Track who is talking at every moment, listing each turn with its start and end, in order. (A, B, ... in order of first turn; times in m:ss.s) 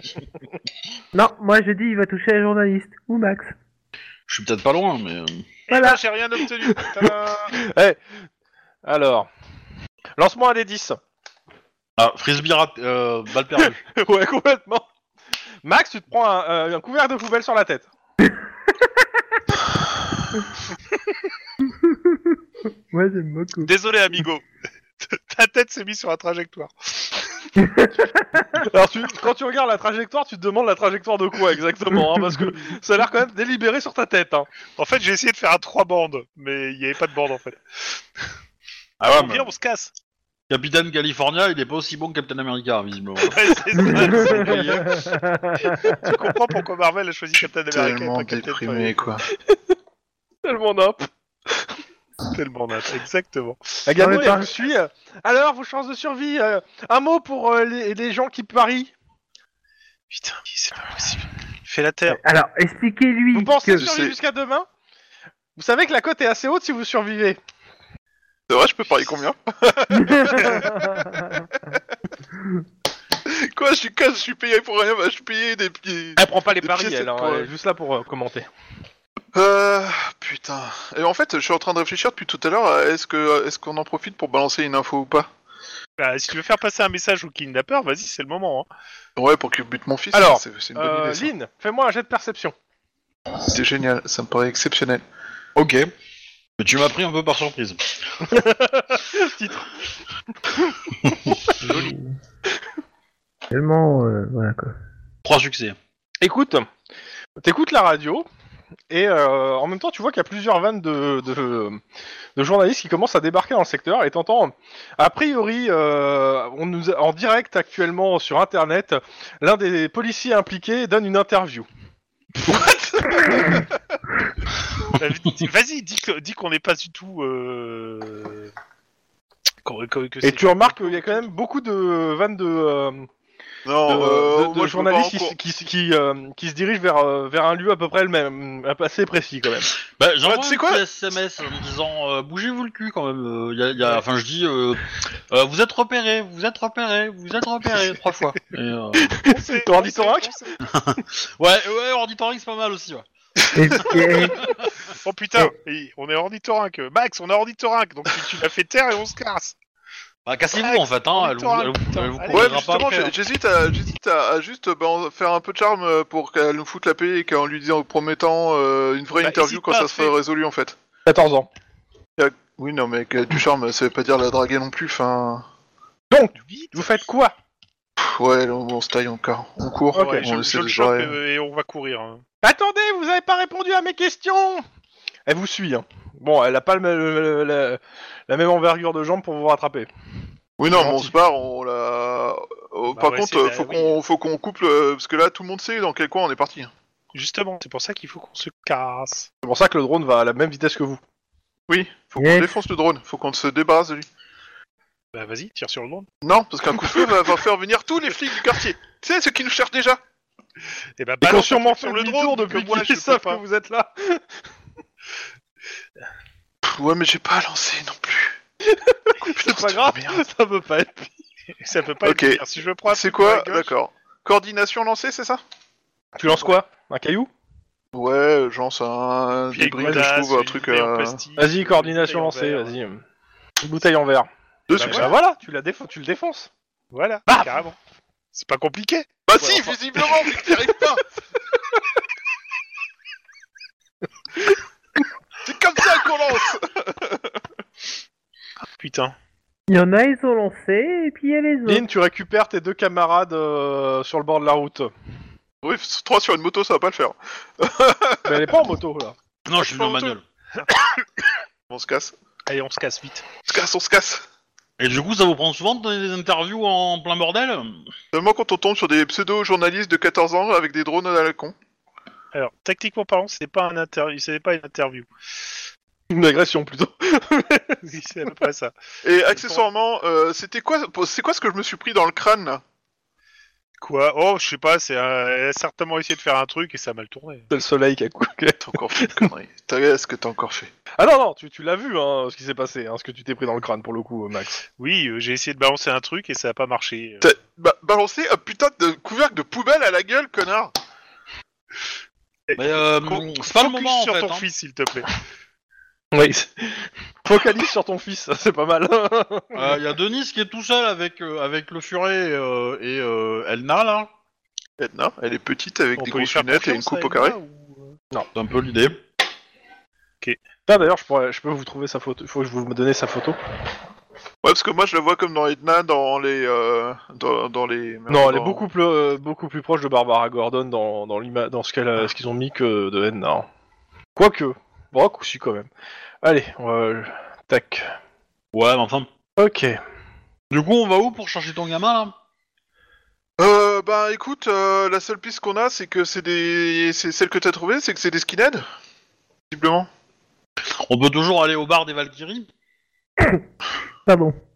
0:01.1-0:03.6 A
0:04.3-0:05.5 B
0:05.7-0:07.6 C
0:05.7-0:06.0 A
0:06.7-0:08.0 D
0:08.8-0:09.3 D
0:10.2-0:11.0 D
0:12.0-0:13.8 B
0:13.9-0:14.9 D
0:15.6-0:17.9 D
0:21.7-0:22.2 A
0:22.9-0:23.7 A
0:23.6-0:24.5 C
0:25.0-0:27.2 C
0:27.6-0:28.7 A
0:28.6-0:34.5 D
0:34.8-0:37.6 C
0:39.0-0:39.5 B
0:39.1-0:39.9 C
0:40.5-0:45.0 B
0:43.2-0:44.9 C
0:44.5-0:46.1 A
0:45.7-0:49.2 C
0:47.4-0:49.3 E
0:49.3-0:49.7 D
0:50.4-0:51.7 D
0:52.3-0:54.4 C
0:53.9-0:58.9 D
0:54.0-0:54.5 A
1:00.1-1:02.2 C
1:02.1-1:03.9 A
1:03.3-1:04.7 D
1:03.7-1:04.2 E
1:05.6-1:07.4 D
1:08.5-1:10.7 E
1:09.9-1:11.4 A
1:10.4-1:10.7 C
1:13.3-1:17.5 E
1:16.2-1:18.5 D
1:19.3-1:25.3 E
1:26.0-1:28.7 C
1:29.2-1:31.3 E
1:30.1-1:32.6 D
1:33.5-1:35.0 E
1:35.6-1:35.9 B
1:36.6-1:38.3 B
1:38.3-1:39.7 D
1:41.6-1:42.2 A
1:43.5-1:44.7 A
1:45.2-1:45.8 B
1:46.2-1:46.7 D
1:47.4-1:48.3 D
1:48.9-1:51.8 D
1:52.4-2:01.7 D
2:02.4-2:02.7 D
2:02.5-2:03.6 E
2:05.0-2:08.5 C
2:09.6-2:11.2 C
2:10.2-2:13.1 D
2:13.7-2:15.3 E
2:13.9-2:19.7 D
2:19.9-2:29.2 B
2:20.2-2:20.8 E
2:29.0-2:30.3 D
2:29.2-2:30.6 C
2:30.6-2:33.0 B
2:33.6-2:34.5 A
2:33.8-2:34.6 B
2:34.9-2:39.6 C
2:40.3-2:43.1 B
2:40.6-2:43.1 C
2:42.3-2:50.8 E
2:49.2-2:50.2 C
2:51.1-2:51.5 D
2:52.2-2:55.4 E
2:56.1-2:57.3 D
2:56.4-2:56.9 C
2:58.0-3:01.2 E
2:59.9-3:02.2 C
3:00.0-3:00.3 D
3:02.4-3:04.6 D
3:05.3-3:09.9 D
3:10.6-3:16.7 E
3:10.7-3:11.1 D
3:12.9-3:14.0 C
3:17.1-3:19.3 C
3:19.4-3:21.0 D
3:21.7-3:24.1 E
3:22.2-3:22.6 A
3:25.1-3:26.1 C
3:26.2-3:30.0 E
3:31.0-3:33.4 C
3:31.2-3:34.4 D
3:36.6-3:38.4 E
3:38.7-3:41.1 D
3:39.2-3:40.2 E
3:41.6-3:43.7 C
3:42.0-3:45.4 E
3:46.2-3:47.3 D
3:47.9-3:51.2 E
3:49.5-3:52.7 C
3:51.4-3:53.0 D
3:53.6-3:56.5 D
3:54.7-3:55.1 E
3:54.8-3:55.1 C
3:56.9-3:57.8 C
3:57.3-3:57.5 D
3:58.3-3:59.2 C
3:59.3-4:01.0 E
3:59.4-3:59.7 D
4:00.3-4:00.7 D
4:05.4-4:07.3 E
4:08.8-4:09.2 C
4:09.7-4:11.8 A
4:11.7-4:14.9 D
4:15.6-4:18.5 E
4:18.2-4:19.2 D
4:19.5-4:20.2 B
4:19.7-4:20.2 E
4:21.7-4:22.1 E
4:22.5-4:23.3 C
4:23.5-4:24.2 E
4:24.8-4:27.8 B
4:28.1-4:31.6 E
4:32.3-4:35.1 C
4:36.1-4:37.8 D
4:37.8-4:38.7 C
4:39.0-4:42.6 E
4:39.3-4:39.6 C
4:43.8-4:47.5 C
4:47.5-4:49.3 D
4:48.6-4:50.7 E
4:51.0-4:54.6 D
4:54.8-4:57.3 C
4:57.2-5:00.7 E
5:02.5-5:05.1 C
5:02.6-5:04.5 B
5:06.1-5:09.8 D
5:09.5-5:14.1 B
5:14.8-5:17.4 E
5:16.0-5:18.0 C
5:18.4-5:19.0 B
5:20.7-5:23.4 D
5:24.4-5:28.6 E
5:28.1-5:33.5 D
5:34.2-5:35.7 D
5:36.2-5:38.0 D
5:38.5-5:39.1 B
5:39.4-5:39.8 D
5:40.5-5:42.1 B
5:43.4-5:48.6 E
5:49.5-5:49.9 E
5:50.9-5:52.5 B
5:54.1-5:54.4 A